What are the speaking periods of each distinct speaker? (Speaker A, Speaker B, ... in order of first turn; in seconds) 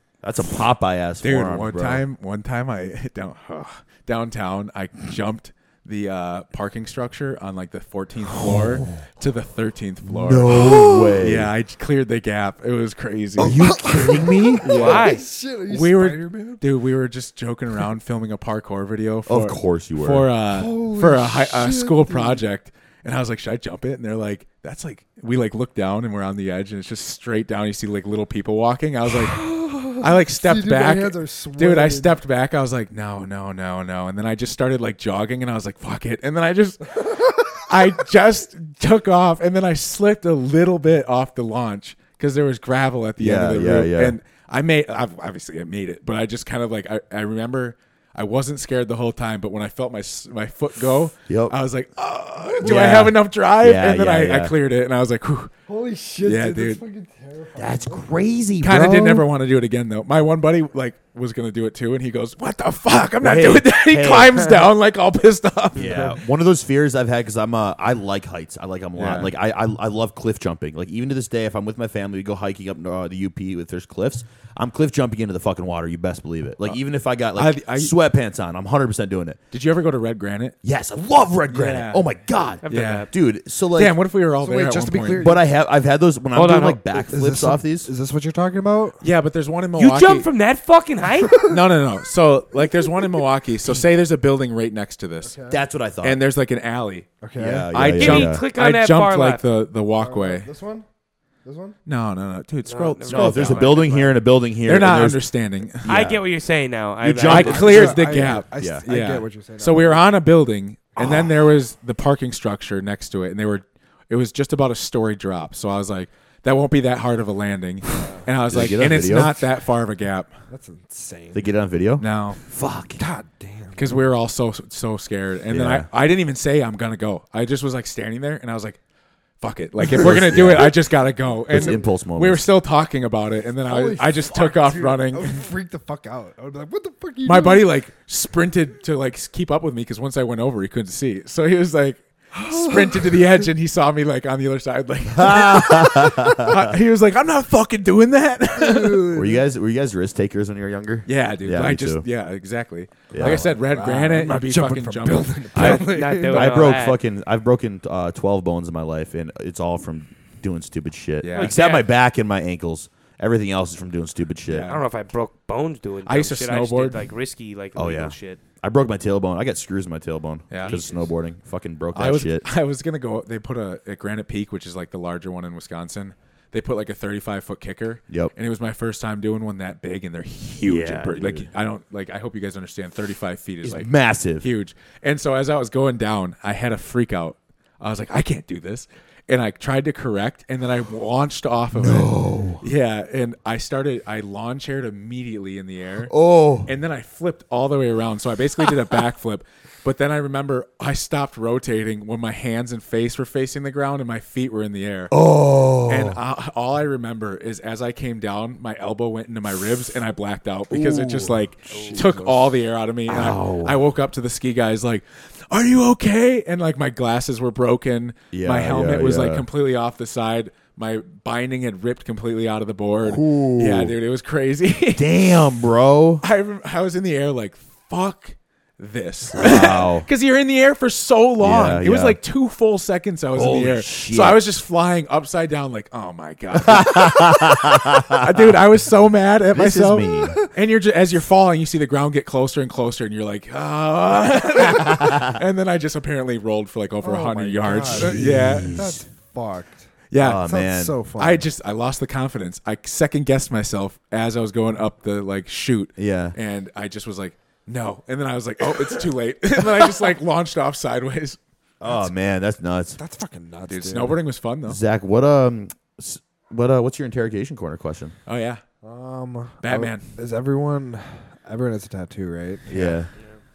Speaker A: 0.2-2.0, 8.4-9.0, 10.1-11.5, 13.4-14.7, 19.3-20.3, 43.2-44.1, 51.3-51.6, 52.6-54.5, 57.6-58.9, 63.2-64.5, 65.7-79.4, 80.6-84.0, 85.2-87.9, 95.5-96.2, 97.4-98.4, 103.1-105.3, 105.8-106.2, 107.0-108.0, 108.6-108.8, 118.5-119.4, 121.3-123.0, 125.5-125.9, 130.0-130.8, 131.5-132.4, 145.1-146.7, 149.1-152.0, 153.1-153.5, 155.5-164.7, 167.8-172.4, 180.6-181.5, 183.6-184.5, 191.8-192.6, 196.1-196.7, 205.1-206.2, 213.1-213.8, 218.3-219.4, 224.9-226.2, 229.4-230.1, 231.4-232.2, 233.3-234.4, 236.6-238.5, 239.5-240.4, 245.0-245.3, 247.9-249.0, 250.2-250.9, 256.0-256.4, 261.8-263.0, 264.6-268.2, 272.7-273.1
Speaker B: 1.2-10.7, 11.2-13.8, 14.6-15.1, 15.7-55.5, 56.2-56.8, 58.6-66.2, 69.0-69.3, 77.3-77.9, 79.5-80.6, 81.5-82.0, 82.7-83.1, 83.7-85.3, 89.0-90.3, 91.4-95.4, 96.0-97.1, 97.7-100.5, 101.9-103.8, 104.6-105.9, 107.2-120.3, 122.0-122.4, 123.8-128.8, 129.4-135.3, 137.2-149.1, 151.1-155.8, 161.2-161.6, 164.5-164.8, 166.1-167.0, 170.5-170.8, 171.9-205.2, 205.9-225.2, 226.2-248.8, 250.1-250.4, 251.1-261.4, 263.7-264.8, 268.3-268.6, 269.6-270.1
Speaker C: 10.5-11.2, 13.4-16.6, 20.5-22.4, 29.1-32.1, 52.6-52.9, 55.7-58.1, 58.6-59.3, 65.8-66.2, 84.4-85.4, 87.0-89.0, 91.2-91.6, 95.2-95.6, 97.2-97.8, 100.0-100.9, 101.4-101.8, 107.4-110.1, 111.0-111.2, 118.0-118.3, 120.5-121.5, 123.0-124.0, 133.7-137.7, 142.4-143.2, 148.6-149.5, 153.1-156.6, 210.8-212.5, 223.1-223.9, 247.0-251.4, 263.0-264.2, 268.8-272.7
Speaker D: 14.7-15.2, 82.6-83.1, 86.3-86.8, 89.8-91.4, 98.0-99.4, 102.7-104.2, 105.8-108.0, 155.6-157.0, 161.4-161.9, 164.7-168.4, 170.6-171.1, 211.7-212.0